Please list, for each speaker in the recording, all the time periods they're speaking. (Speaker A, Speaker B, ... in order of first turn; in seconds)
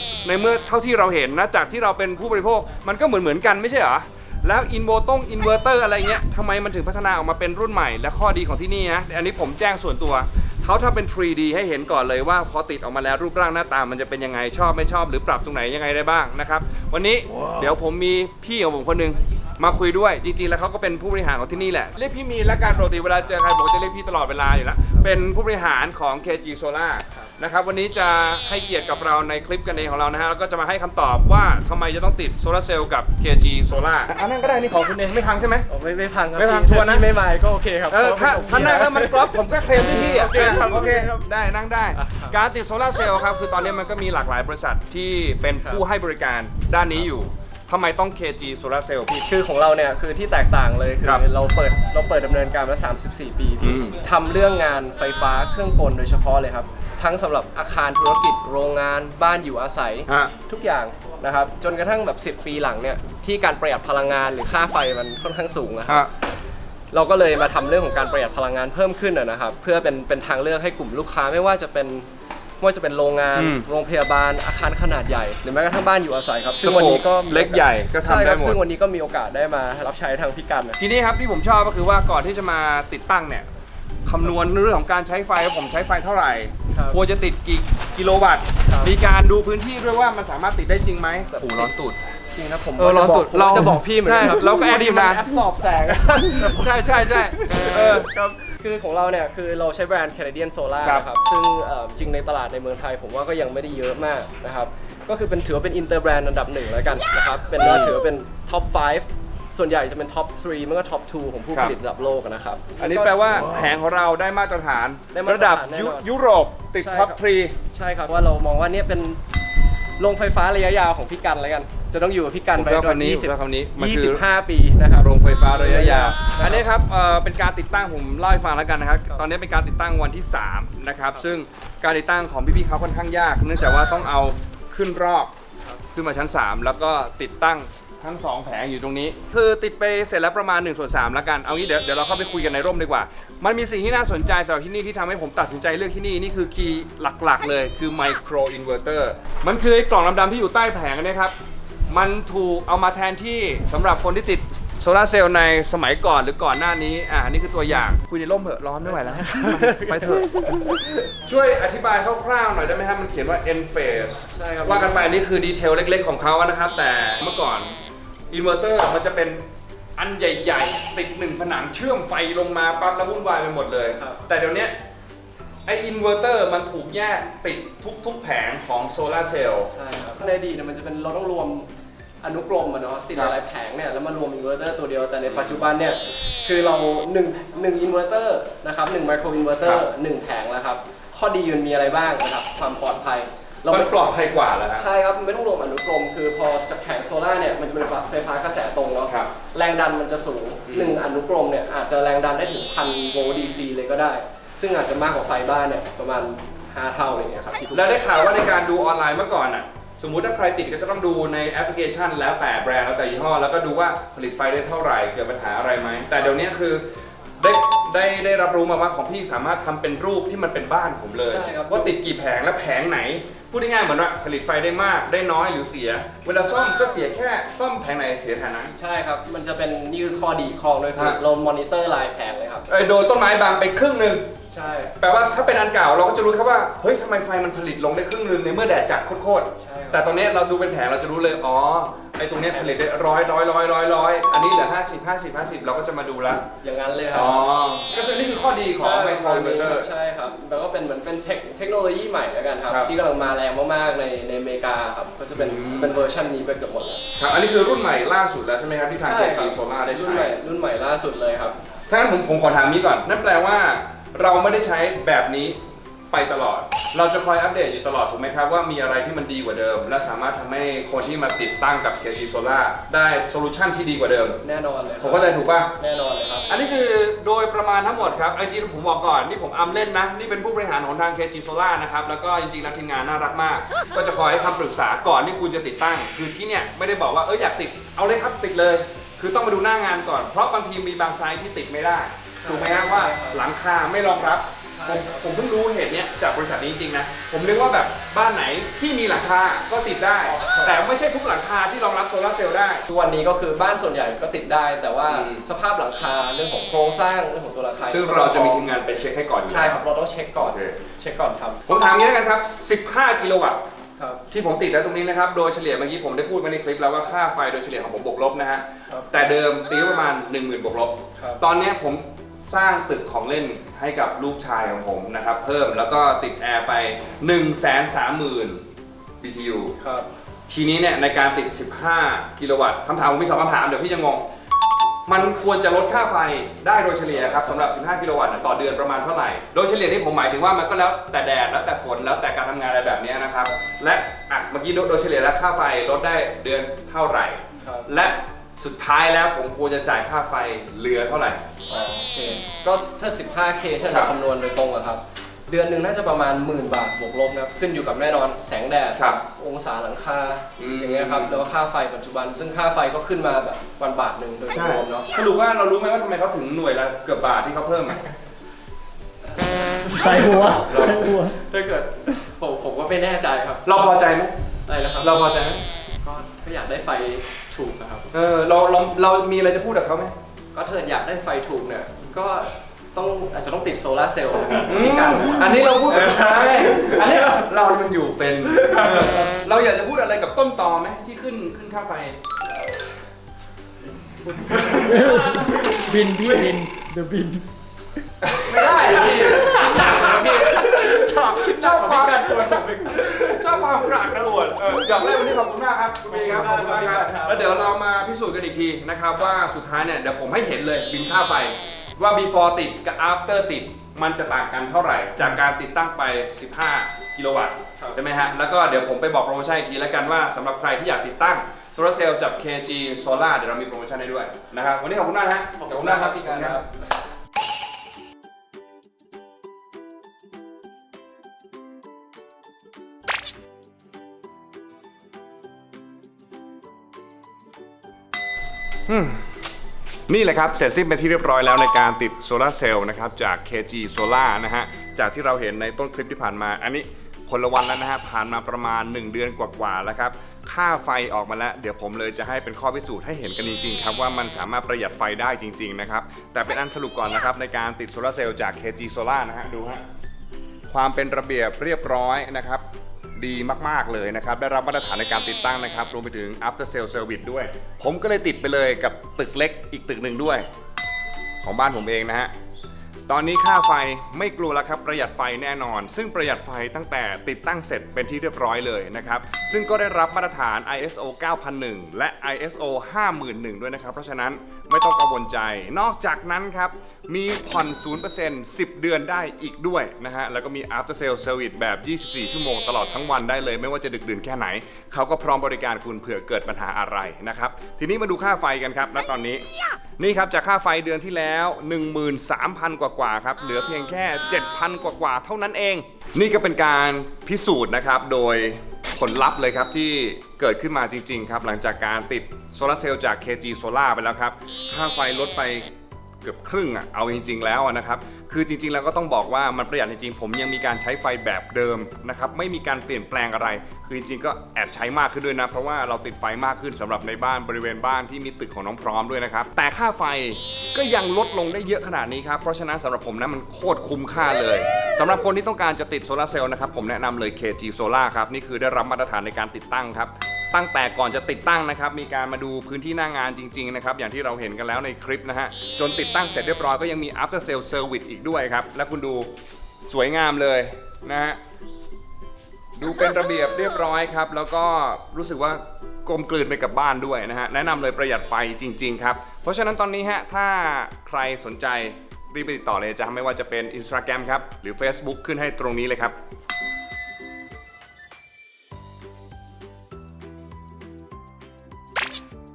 Speaker A: 0.2-35.7, 36.4-37.0, 37.9-49.1, 53.6-54.0, 60.1-60.3, 73.3-73.7, 76.6-78.6, 80.8-83.5, 84.0-92.2, 92.7-95.5, 96.0-98.1, 107.6-107.9, 112.8-117.5, 122.5-124.2, 125.0-135.3, 135.9-151.3, 151.9-167.7, 168.3-174.8, 175.7-179.7, 185.3-185.7, 193.7-194.8, 199.1-199.3, 200.7-200.9, 207.7-216.9, 217.4-228.8, 232.7-234.3, 235.0-246.4, 247.1-249.9, 255.3-255.9, 257.1-260.3, 261.9-274.4, 275.0-275.7, 276.5-302.9, 305.1-305.4, 307.9-309.8, 310.4-310.8, 311.6-313.6, 314.3-328.6, 329.2-329.8, 330.5-334.2, 335.1-351.4, 353.8-354.1, 358.9-359.2, 360.6-361.4, 364.5-368.0, 373.6-374.3, 375.0-375.6, 378.1-380.1, 384.5-392.2, 398.2-426.6, 438.9-439.2, 440.1-459.8, 460.7-462.6, 463.2-470.4, 471.4-472.3, 473.1-499.4, 500.0-549.3, 549.8-551.4, 552.8-566.1
Speaker B: 35.7-41.3, 42.0-42.4, 45.5-45.8, 49.1-66.0, 66.9-72.1, 72.6-80.8, 86.7-87.0, 88.7-88.9, 91.3-91.7, 92.3-113.5, 115.1-116.1, 116.8-117.2, 117.7-119.2, 120.0-126.7, 159.2-160.9, 164.3-165.1, 174.0-174.2, 179.7-181.7, 182.2-194.1, 194.7-208.1, 221.3-222.0, 228.8-232.7, 234.5-234.9, 239.6-240.2, 242.4-242.9, 246.6-247.5, 248.7-257.0, 259.0-261.6, 274.4-276.5, 292.4-293.5, 294.8-295.3, 300.2-300.9, 302.9-308.7, 309.5-311.6, 314.0-314.2, 318.9-319.3, 321.2-321.4, 329.8-330.1, 337.1-337.8, 347.6-347.9, 351.7-365.1, 369.3-373.6, 374.6-375.3, 376.0-378.1, 380.5-387.4, 388.5-389.3, 394.3-396.5, 398.4-405.4, 406.0-407.7, 425.6-426.8
Speaker C: 369.9-371.4, 394.7-397.5